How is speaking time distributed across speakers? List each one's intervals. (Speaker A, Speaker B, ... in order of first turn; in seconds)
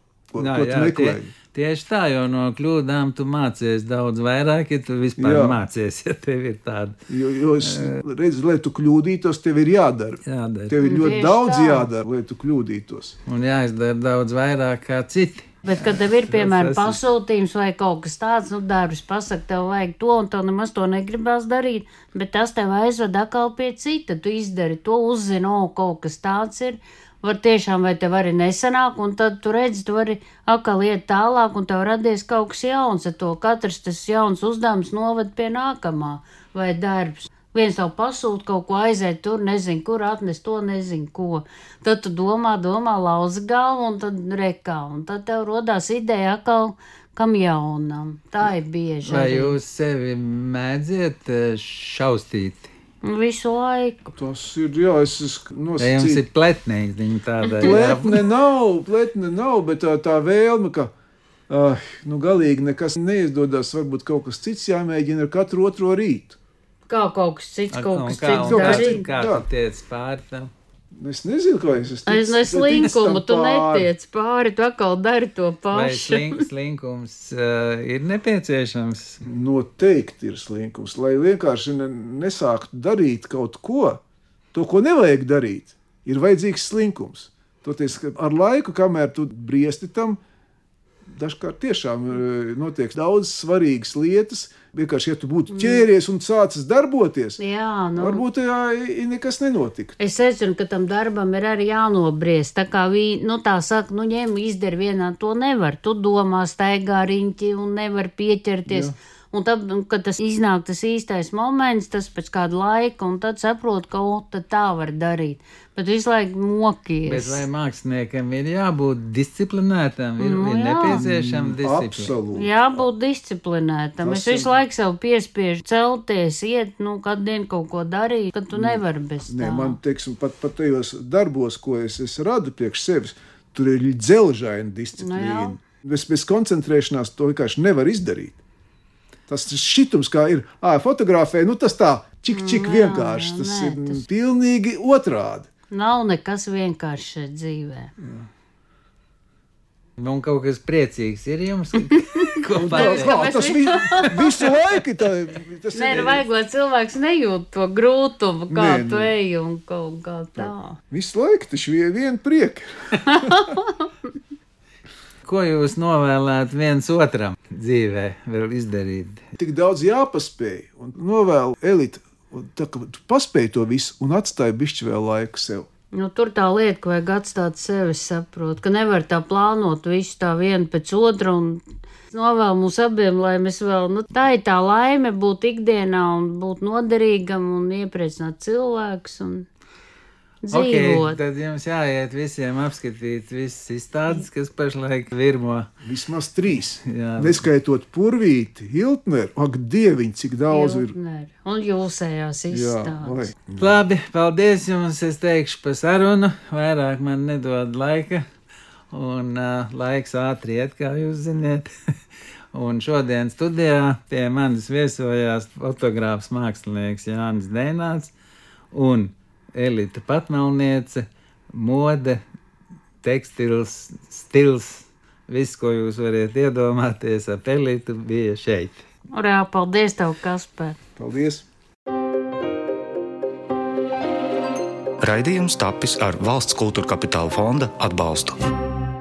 Speaker A: 0.3-1.3, 5.2-5.6, 7.1-13.2, 54.2-56.2, 57.6-60.9, 61.5-66.4, 68.5-69.5, 71.0-73.9, 79.2-84.0, 84.5-90.2, 91.1-97.4, 98.0-100.0, 108.7-108.9, 120.9-122.8, 124.0-124.5, 128.6-138.4, 139.3-145.5, 148.0-148.3, 152.6-156.2, 158.5-159.1, 160.4-163.5, 169.4-175.7, 195.8-200.9, 202.5-203.5, 231.0-231.5
Speaker B: 0.4-7.0, 7.6-8.0, 10.3-10.8, 13.3-17.0, 49.0-52.7, 55.8-58.2, 67.7-70.5, 75.7-79.2, 117.1-122.1, 150.0-153.2, 165.2-169.3, 190.5-195.7, 196.8-197.4, 203.5-208.3, 208.9-211.7, 212.5-218.1, 218.7-222.2, 223.0-228.8
Speaker C: 10.8-11.9, 15.7-49.5, 53.0-54.1, 57.4-57.7, 66.9-69.0, 72.1-76.5, 95.5-95.8, 97.4-98.2, 100.0-117.4, 120.2-121.0, 122.3-129.8, 135.0-135.6, 142.3-144.0, 145.7-147.9, 151.9-154.4, 155.7-160.8, 163.1-163.7, 175.9-189.5, 190.5-191.2, 200.5-203.3, 229.1-230.8
Speaker D: 235.0-238.4